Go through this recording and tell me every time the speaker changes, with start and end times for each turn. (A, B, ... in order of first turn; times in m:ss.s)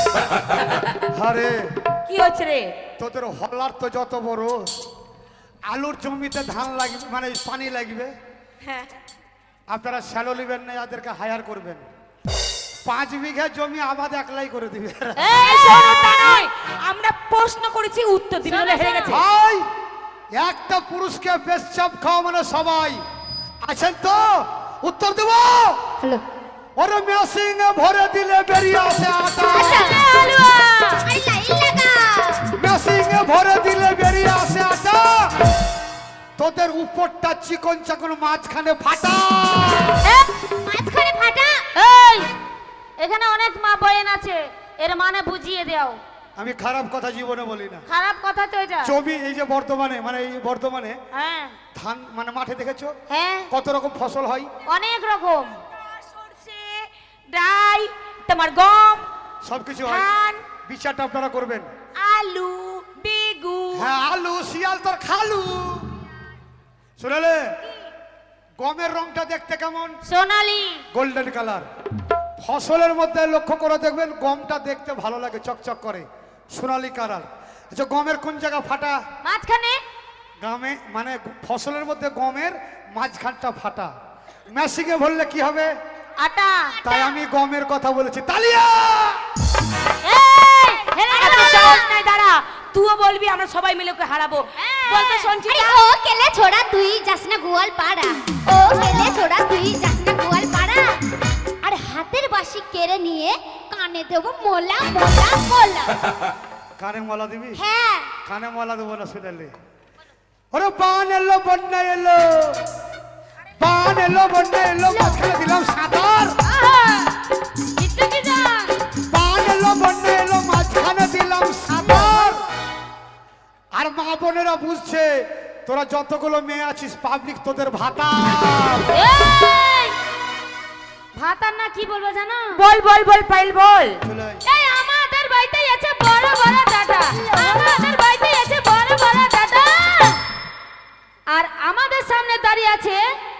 0:01.1-0:01.6 A
0:02.1-0:02.7 B
0:03.0-0:04.7 A
0:05.7-0:08.1 A
0:08.6-0:08.9 B
0:09.7-0:11.8 A
0:12.8-0:15.2 A
0:15.2-0:16.4 C
0:15.4-0:19.2 B
0:18.4-0:19.2 C
0:19.1-0:19.6 A
0:20.3-0:23.0 A
0:23.6-0:26.0 A
0:26.8-0:30.0 A
0:29.5-0:30.2 D
0:29.5-0:31.0 C
0:30.9-0:32.5 D
0:32.6-0:35.4 A
0:36.4-0:40.0 A
0:40.0-0:40.4 C
0:40.5-0:41.7 D
0:41.7-0:42.3 C
0:43.0-0:46.0 C
0:46.4-0:47.8 A
0:47.9-0:48.9 C
0:48.8-0:51.0 A
0:51.1-0:51.6 C
0:51.8-0:53.0 A
0:53.1-0:53.5 C
0:53.5-0:54.5 A
0:54.7-0:55.6 C
0:56.0-0:59.0 B
0:59.4-1:00.1 A
0:59.8-1:00.3 B
1:00.6-1:01.7 A
1:02.0-1:03.9 B
1:03.7-1:05.9 A
1:07.0-1:07.6 A
1:08.6-1:10.0 A
1:10.0-1:10.8 C
1:10.9-1:11.6 A
1:12.4-1:19.0 A
1:19.2-1:19.8 C
1:20.4-1:23.9 A
1:24.5-1:25.7 A
1:26.2-1:27.0 C
1:26.8-1:29.2 A
1:30.0-1:31.8 C
1:31.1-1:35.8 B
1:34.6-1:35.3 C
1:35.4-1:41.0 D
1:41.6-1:46.0 D
1:46.8-1:47.6 A
1:47.6-1:48.1 D
1:48.2-1:49.5 A
1:50.5-1:52.6 A
1:53.6-1:56.4 A
1:56.4-1:57.1 C
1:57.8-1:58.7 C
1:59.1-2:02.4 A
2:01.8-2:02.4 C
2:03.7-2:08.9 A
2:08.9-2:10.0 C
2:11.1-2:12.6 C
2:12.6-2:14.0 B
2:14.0-2:14.4 A
2:14.4-2:20.2 C
2:21.3-2:23.0 C